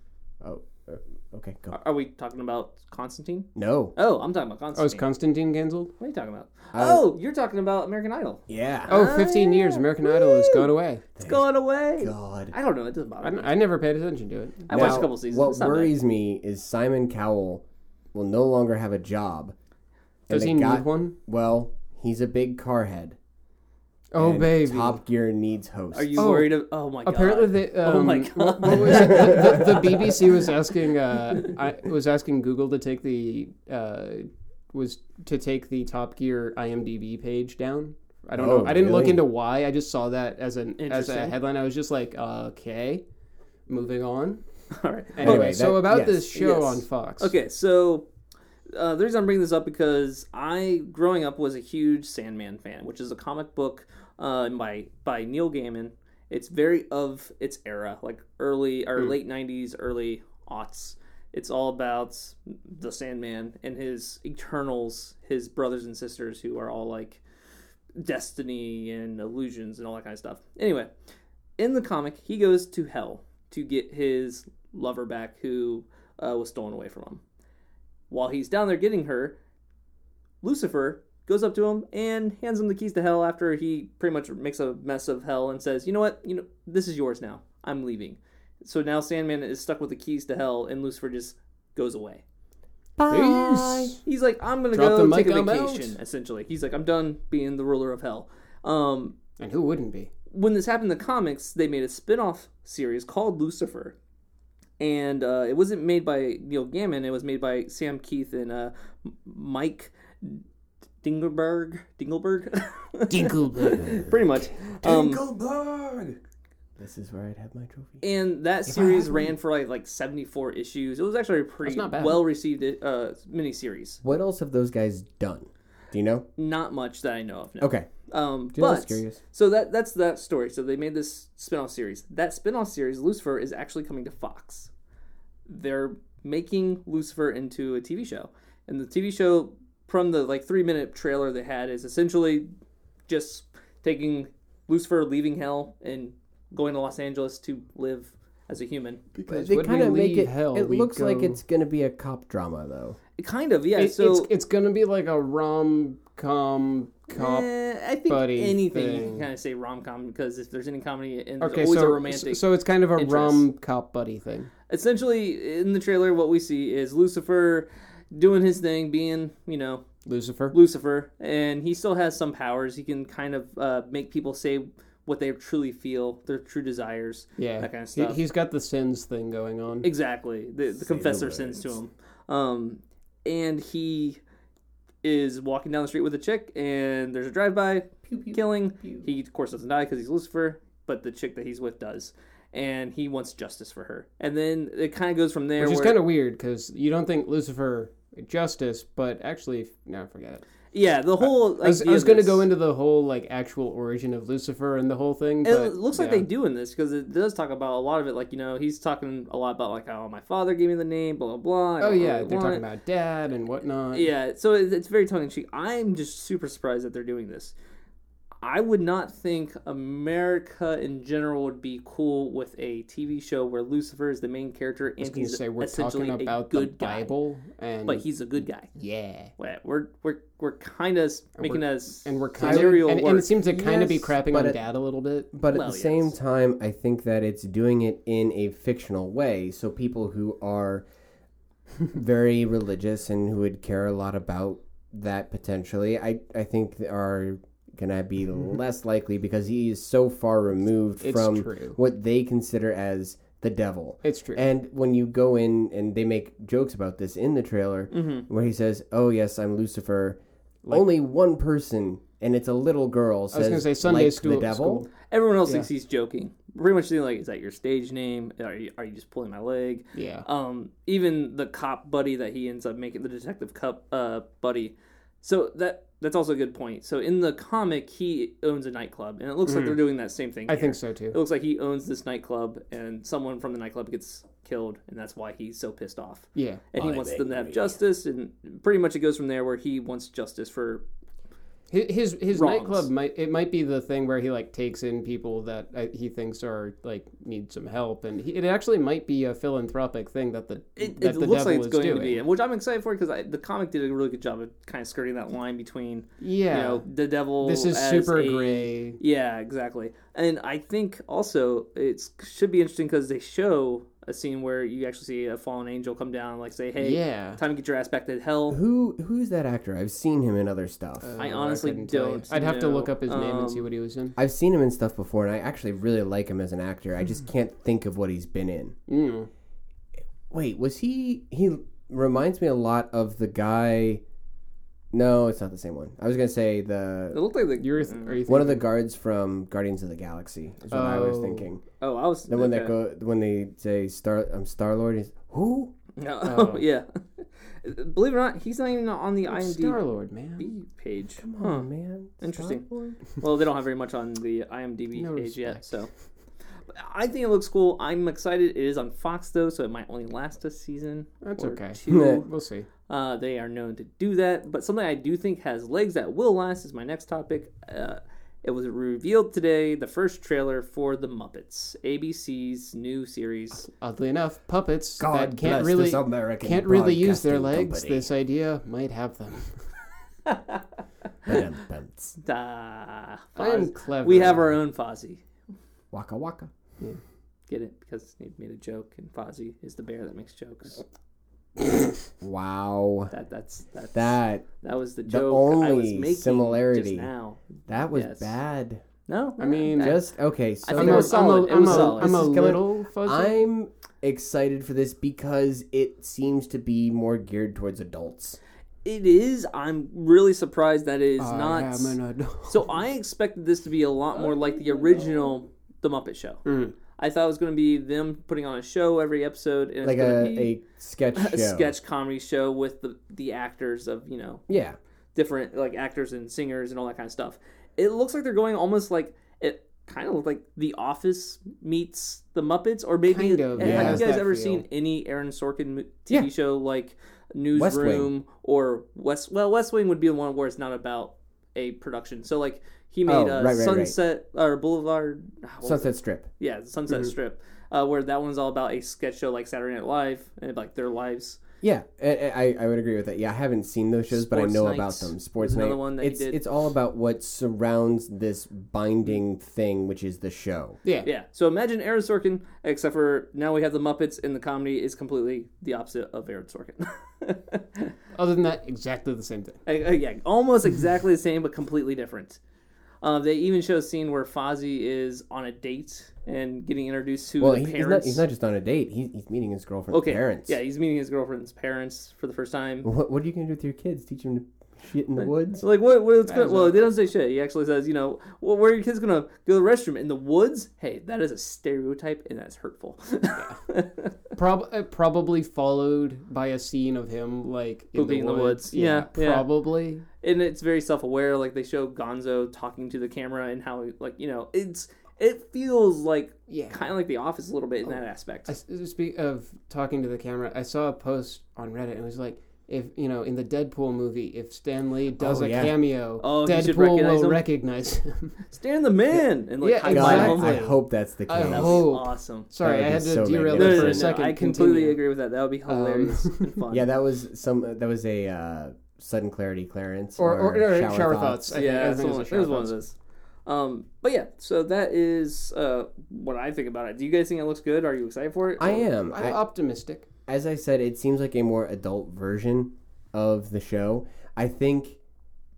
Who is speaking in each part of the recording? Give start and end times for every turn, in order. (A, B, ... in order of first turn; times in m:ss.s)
0:00.4-0:01.8 A
0:01.7-0:05.1 B
0:03.6-0:03.9 A
0:04.8-0:05.9 C
0:06.0-0:10.7 B
0:06.7-0:07.1 A
0:08.5-0:09.0 A
0:08.9-0:11.0 C
0:11.2-0:11.4 A
0:11.2-0:13.6 B
0:12.0-0:12.6 A
0:13.2-0:15.1 C
0:14.7-0:15.9 B
0:14.7-0:19.6 A
0:20.3-0:23.2 A
0:20.3-0:21.2 C
0:24.1-0:25.0 C
0:24.2-0:26.4 A
0:25.9-0:30.2 B
0:26.2-0:43.0 C
0:38.4-0:39.3 A
0:40.8-0:41.4 B
0:43.7-0:44.4 C
0:44.7-0:45.5 B
0:45.2-0:47.3 C
0:45.2-0:46.3 A
0:46.3-0:48.1 B
0:48.7-1:07.2 B
1:08.0-1:10.9 B
1:11.6-1:17.2 B
1:18.1-1:19.4 B
1:20.4-1:32.2 B
1:33.0-1:34.0 A
1:33.1-1:34.0 C
1:34.0-1:39.2 B
1:34.7-1:36.0 C
1:39.4-1:40.1 C
1:40.3-1:44.0 B
1:44.8-1:50.4 B
1:51.0-1:55.2 B
1:53.1-1:54.5 C
1:54.8-1:56.2 A
1:56.8-1:58.0 A
1:58.0-2:04.0 B
1:58.7-1:59.3 C
2:01.6-2:02.2 C
2:04.0-2:06.3 A
2:06.4-2:14.7 B
2:07.6-2:07.9 A
2:08.5-2:09.2 A
2:15.5-2:22.5 B
2:23.1-2:29.0 B
2:29.2-2:33.0 A
2:29.3-2:31.4 C
2:33.2-2:34.3 B
2:33.8-2:37.5 C
2:37.1-2:42.4 B
2:38.1-2:39.3 C
2:41.4-2:44.5 C
2:43.0-2:43.5 B
2:44.7-2:49.8 B
2:50.1-2:50.6 C
2:50.5-2:58.2 B
2:57.4-2:59.9 C
2:59.8-3:04.2 B
3:00.8-3:01.8 A
3:05.0-3:16.0 B
3:08.0-3:09.1 A
3:15.6-3:20.4 C
3:20.7-3:22.5 B
3:21.2-3:26.3 C
3:25.4-3:32.6 B
3:31.8-3:34.1 C
3:33.9-3:37.5 B
3:38.4-3:47.1 B
3:45.0-3:48.0 C
3:47.9-3:48.7 B
3:48.8-3:49.3 C
3:49.4-3:53.3 B
3:51.4-3:55.3 C
3:52.4-3:52.7 A
3:53.5-3:54.6 A
3:55.3-4:00.8 A
3:55.5-3:56.1 B
4:01.9-4:20.2 A
4:11.0-4:11.8 C
4:14.0-4:14.5 C
4:17.9-4:18.3 B
4:20.7-4:24.8 A
4:23.3-4:24.9 C
4:25.1-4:50.8 B
4:29.9-4:30.3 C
4:39.5-4:39.8 C
4:40.5-4:41.2 C
4:46.4-4:46.6 C
4:46.8-4:47.8 A
4:51.7-5:02.2 C
4:52.3-4:52.9 B
5:00.8-5:18.6 B
5:06.2-5:06.8 C
5:07.4-5:09.0 C
5:16.8-5:17.4 C
5:18.5-5:21.1 A
5:21.0-5:24.2 C
5:21.2-5:23.7 B
5:24.2-5:28.8 A
5:28.9-5:29.3 C
5:30.3-5:34.0 A
5:34.9-5:37.2 A
5:37.1-5:38.2 B
5:37.6-5:38.7 C
5:38.3-5:41.6 A
5:40.6-5:41.5 C
5:41.8-5:42.7 B
5:42.3-5:45.7 A
5:46.0-5:49.8 B
5:46.2-5:46.6 C
5:49.3-5:50.5 C
5:50.4-5:51.7 B
5:51.2-5:53.0 A
5:52.2-5:55.9 B
5:55.0-5:55.7 C
5:56.7-6:02.3 B
6:01.2-6:02.7 C
6:01.9-6:02.2 A
6:02.9-6:13.7 B
6:13.7-6:19.7 C
6:15.0-6:18.1 A
6:20.3-6:20.6 B
6:21.3-6:22.2 A
6:22.2-6:25.2 B
6:23.4-6:24.6 C
6:25.9-6:26.5 A
6:27.5-6:30.8 B
6:32.2-6:33.1 A
6:33.1-6:38.3 B
6:33.9-6:34.5 A
6:35.1-6:37.1 A
6:37.7-6:38.8 A
6:39.1-6:40.1 B
6:39.4-6:40.0 C
6:39.8-6:48.4 A
6:40.6-6:42.3 B
6:40.7-6:43.4 C
6:48.8-6:52.0 B
6:51.2-6:52.7 C
6:52.5-7:00.6 B
6:56.4-6:56.8 C
6:59.8-7:01.8 A
7:01.2-7:04.4 B
7:04.5-7:04.8 A
7:05.2-7:31.4 B
7:13.1-7:14.6 C
7:13.6-7:14.1 A
7:17.5-7:18.1 A
7:23.1-7:24.0 A
7:25.6-7:26.3 A
7:31.6-7:40.8 A
7:34.1-7:36.4 B
7:40.8-7:41.1 C
7:41.0-7:47.9 B
7:48.1-7:49.6 C
7:49.7-7:52.4 B
7:53.0-7:58.2 B
7:57.4-8:00.6 A
7:59.9-8:02.9 B
8:02.8-8:05.6 A
8:05.6-8:14.2 B
8:06.3-8:06.9 C
8:14.3-8:20.1 C
8:18.0-8:19.6 B
8:20.2-8:28.5 B
8:26.5-8:26.9 C
8:28.5-8:38.4 C
8:35.2-8:35.8 A
8:36.2-8:37.4 B
8:38.5-8:40.7 B
8:39.6-8:45.0 C
8:39.9-8:41.9 A
8:41.4-8:42.5 B
8:42.6-8:44.2 A
8:43.5-8:46.9 B
8:45.7-8:46.6 C
8:46.7-8:51.6 A
8:50.2-8:52.8 C
8:51.5-8:58.8 B
8:58.6-8:59.4 A
8:59.0-9:00.1 C
9:00.3-9:05.0 A